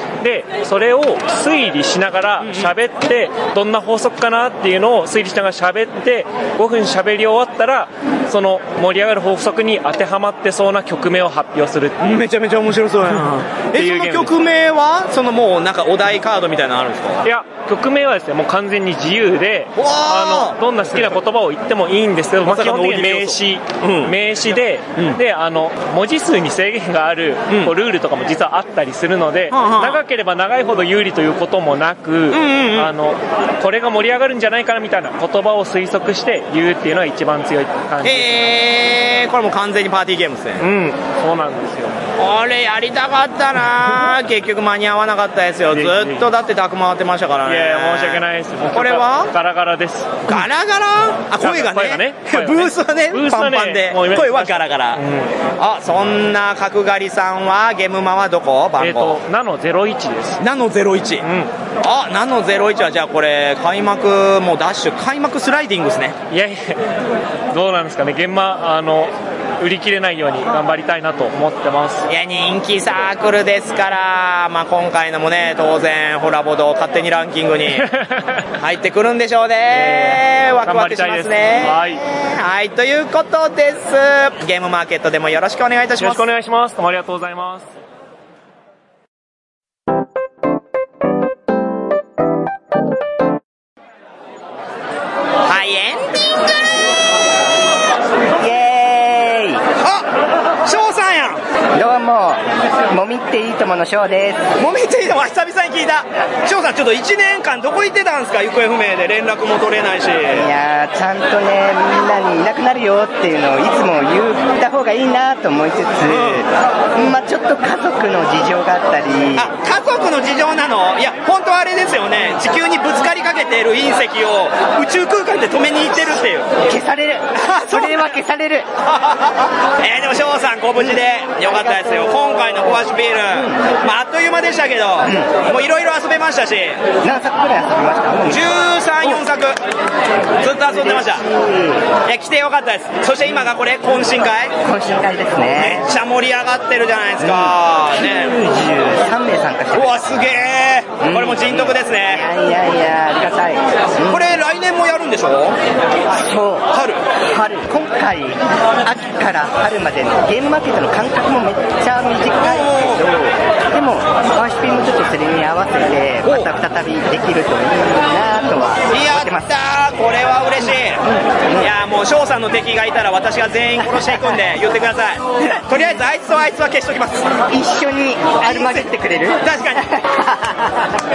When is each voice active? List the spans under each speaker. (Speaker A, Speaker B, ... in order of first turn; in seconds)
Speaker A: 0.2-12.0, 13.7-14.3, 17.2-38.5, 40.6-42.0, 45.7-46.3, 47.5-50.4, 51.4-55.3, 58.8-60.4, 61.2-61.5, 66.3-66.8, 67.5-72.1, 77.7-78.2, 79.7-82.0, 86.0-87.7
Speaker B: 2.4-2.7, 12.0-17.2, 19.8-21.1, 22.4-24.1, 29.5-30.0, 32.3-32.9, 38.0-40.6, 42.2-48.2, 48.7-49.3, 50.3-55.0, 55.6-59.2, 60.4-61.2, 61.8-66.1, 72.1-77.9, 78.6-86.2, 95.5-96.0, 99.8-100.1, 100.6-101.4, 104.6-110.5, 116.1-116.4, 119.4-126.5, 127.4-128.2, 129.8-136.8, 138.3-139.6, 140.4-141.3, 142.1-144.5, 145.6-148.4, 149.7-152.3, 154.1-155.6, 156.7-157.0, 162.4-163.0, 166.2-166.5, 168.9-171.0, 171.6-177.3, 178.4-178.9, 179.4-179.8
Speaker C: 98.4-99.6, 101.7-104.5, 110.3-119.5, 126.6-128.7, 131.5-131.9, 135.0-135.4, 137.0-138.5, 140.7-141.9, 144.6-145.9, 147.2-150.4, 151.0-154.4, 156.1-156.7, 157.2-169.5, 170.6-171.7, 173.8-174.4, 177.5-180.8